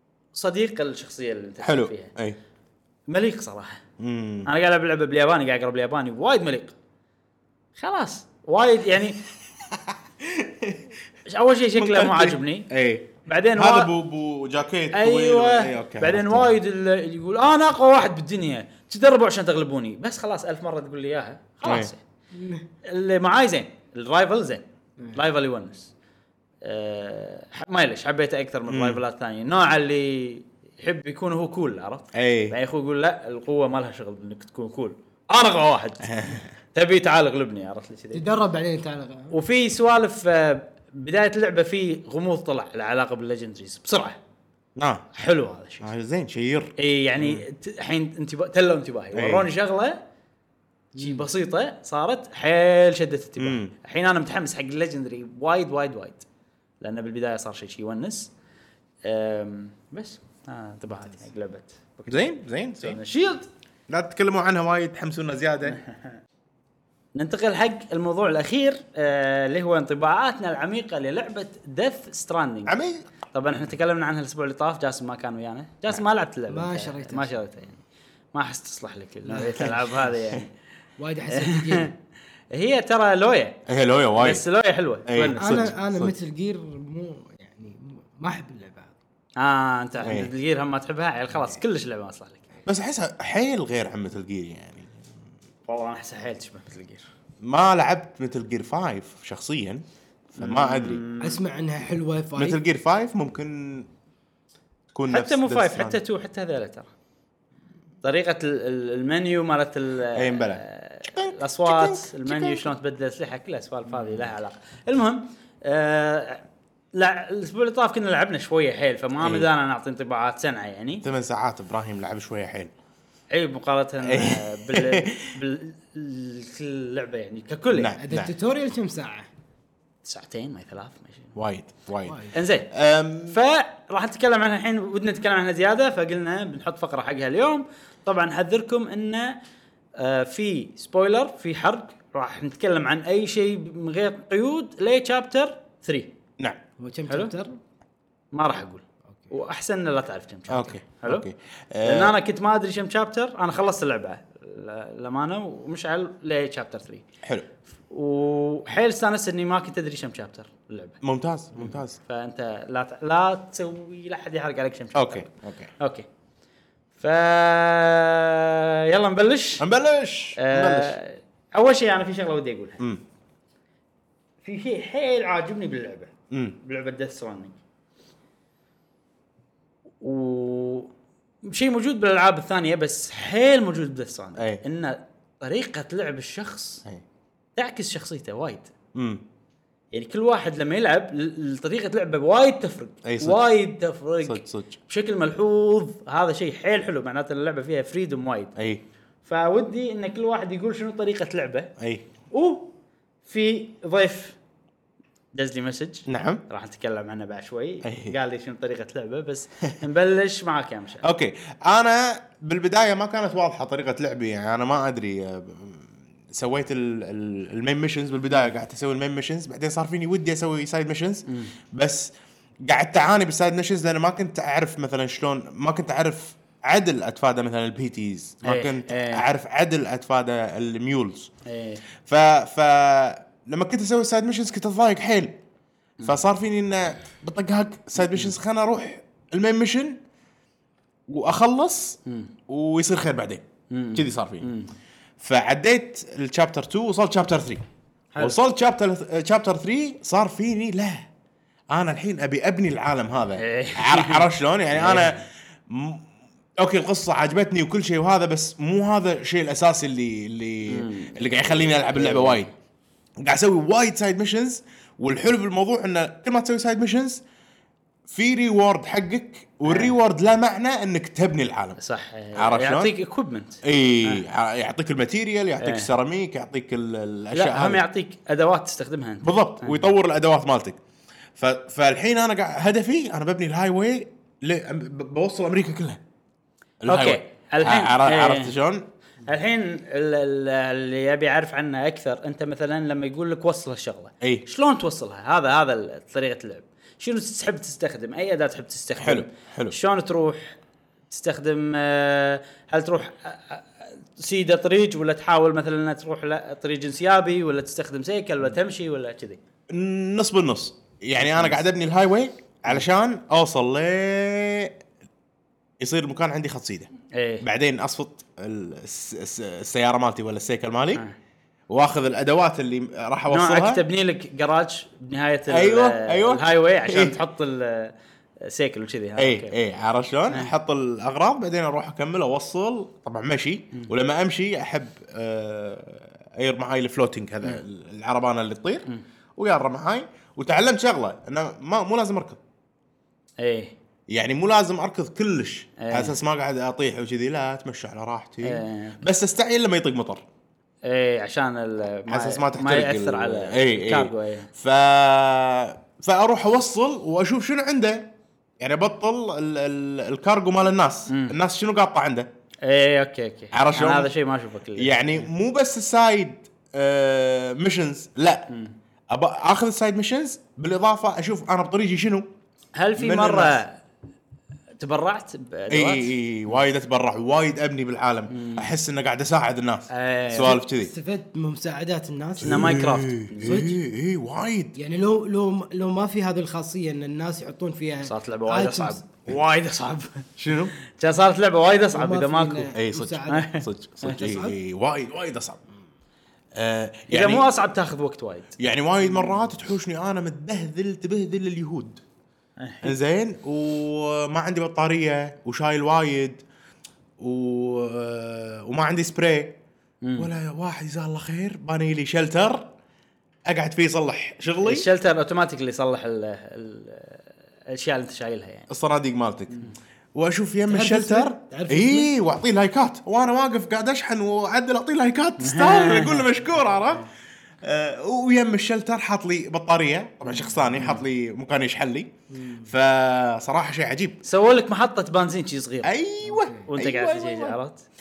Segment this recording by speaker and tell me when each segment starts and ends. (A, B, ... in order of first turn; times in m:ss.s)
0:00.3-0:02.1 A
0:01.6-0:02.4 B
0:03.1-0:03.8 A
0:04.0-0:04.5 B
0:04.4-0:06.8 A
0:07.8-0:09.2 A
0:09.6-0:10.9 B
0:11.3-0:12.7 A
0:11.8-0:16.5 B
0:13.3-0:13.9 A
0:14.9-0:22.0 A
0:21.6-0:21.9 B
0:22.3-0:22.6 C
0:22.8-0:25.9 A
0:26.6-0:38.2 A
0:28.7-0:29.0 B
0:32.1-0:32.6 B
0:36.0-0:36.5 B
0:38.1-0:39.3 C
0:39.3-0:44.2 A
0:44.8-0:45.1 B
0:45.1-0:45.9 A
0:45.8-0:47.4 B
0:46.8-0:50.0 A
0:49.2-0:49.5 B
0:51.0-0:51.2 C
0:51.0-0:56.3 A
0:53.4-0:53.7 B
0:56.8-0:58.3 A
0:59.0-1:03.5 A
1:02.1-1:03.0 B
1:03.9-1:05.8 B
1:07.2-1:12.8 A
1:12.7-1:13.1 B
1:13.3-1:17.8 A
1:16.5-1:17.4 C
1:18.3-1:20.5 A
1:19.3-1:20.0 C
1:21.0-1:21.9 C
1:21.3-1:21.9 A
1:22.5-1:23.6 A
1:23.7-1:24.4 B
1:24.2-1:25.7 A
1:25.1-1:26.2 B
1:25.4-1:28.9 C
1:29.4-1:32.5 A
1:30.0-1:30.3 B
1:32.7-1:35.0 B
1:35.7-1:37.1 A
1:37.4-1:39.8 B
1:40.4-1:41.0 B
1:40.4-1:41.4 A
1:41.2-1:42.6 C
1:42.4-1:43.9 B
1:44.9-1:46.0 B
1:45.1-1:46.9 A
1:48.0-2:01.0 A
1:50.1-1:52.7 B
1:59.2-1:59.5 B
2:01.0-2:02.7 B
2:03.3-2:08.0 A
2:04.0-2:05.3 B
2:07.7-2:08.3 B
2:08.0-2:09.3 C
2:10.0-2:11.4 A
2:11.4-2:13.4 B
2:12.1-2:12.3 C
2:12.3-2:12.7 A
2:13.3-2:19.4 A
2:20.0-2:26.1 A
2:26.8-2:27.6 C
2:27.1-2:27.3 A
2:28.3-2:31.2 A
2:30.5-2:32.2 B
2:31.8-2:37.0 A
2:37.2-2:37.5 B
2:37.9-2:41.0 A
2:41.0-2:42.0 B
2:41.6-2:46.1 A
2:45.0-2:45.7 B
2:47.0-2:49.7 A
2:49.6-2:51.0 B
2:50.4-2:52.8 A
2:54.4-2:57.6 A
2:56.3-2:56.6 B
3:00.0-3:00.9 A
3:01.4-3:06.8 A
3:04.4-3:04.6 B
3:07.6-3:08.7 A
3:08.9-3:09.2 B
3:09.9-3:18.6 A
3:13.0-3:13.5 B
3:14.2-3:14.8 B
3:18.6-3:18.8 B
3:19.2-3:21.7 A
3:21.8-3:22.1 B
3:22.3-3:22.7 A
3:23.3-3:24.4 A
3:25.4-3:31.1 A
3:26.1-3:26.4 B
3:27.8-3:28.2 B
3:31.0-3:42.1 B
3:41.3-3:41.5 A
3:42.6-3:51.3 B
3:48.4-3:49.3 A
3:51.4-3:51.8 A
3:52.0-3:55.4 B
3:56.0-4:00.0 B
4:01.1-4:04.5 B
4:02.1-4:02.3 A
4:03.7-4:04.7 A
4:05.2-4:07.6 B
4:08.1-4:08.4 A
4:08.2-4:11.1 B
4:11.7-4:16.0 B
4:13.4-4:15.2 A
4:16.6-4:22.5 B
4:20.7-4:22.5 A
4:23.2-4:27.2 B
4:28.1-4:31.8 B
4:29.6-4:30.0 A
4:31.8-4:34.2 A
4:32.4-4:32.9 B
4:33.6-4:37.8 B
4:35.6-4:35.9 A
4:37.3-4:39.9 A
4:39.2-4:40.8 B
4:41.4-4:46.0 B
4:46.8-4:48.9 B
4:46.9-4:48.6 A
4:49.3-5:00.6 A
4:59.0-4:59.8 B
5:01.1-5:09.4 A
5:09.7-5:14.8 B
5:11.2-5:11.6 A
5:15.8-5:16.9 B
5:17.1-5:17.5 A
5:17.4-5:21.0 B
5:21.7-5:23.8 B
5:23.3-5:29.6 A
5:25.5-5:27.2 B
5:29.2-5:38.9 B
5:39.4-5:42.4 B
5:43.4-5:43.8 A
5:44.1-5:50.2 B
5:45.8-5:46.2 A
5:48.4-5:49.0 A
5:50.8-5:54.5 A
5:52.1-6:02.3 B
6:01.1-6:01.4 A
6:02.6-6:05.2 A
6:03.5-6:04.1 B
6:04.8-6:08.5 B
6:08.5-6:08.7 A
6:09.1-6:12.3 B
6:12.8-6:13.8 A
6:13.0-6:13.6 B
6:14.8-6:16.6 A
6:15.7-6:20.9 B
6:18.3-6:18.7 A
6:19.9-6:20.6 A
6:20.4-6:22.8 C
6:22.4-6:23.6 A
6:22.4-6:24.8 B
6:23.4-6:23.8 C
6:24.8-6:29.0 C
6:28.1-6:30.3 A
6:30.4-6:30.7 B
6:30.8-6:32.7 A
6:31.9-6:33.5 C
6:32.8-6:35.6 B
6:33.3-6:34.2 A
6:34.0-6:34.6 C
6:36.5-6:37.5 B
6:37.1-6:38.6 A
6:38.6-6:42.0 B
6:42.6-6:43.0 A
6:42.8-6:46.4 B
6:47.2-6:49.6 B
6:50.0-6:50.3 A
6:50.2-6:52.7 B
6:53.5-6:54.9 B
6:54.6-6:58.7 A
6:58.7-7:07.1 B
7:00.7-7:02.1 C
7:05.4-7:06.3 A
7:07.6-7:12.1 B
7:10.8-7:11.0 C
7:12.3-7:12.7 C
7:12.6-7:14.2 B
7:14.2-7:15.9 A
7:15.8-7:17.6 B
7:16.3-7:16.6 C
7:16.7-7:17.8 A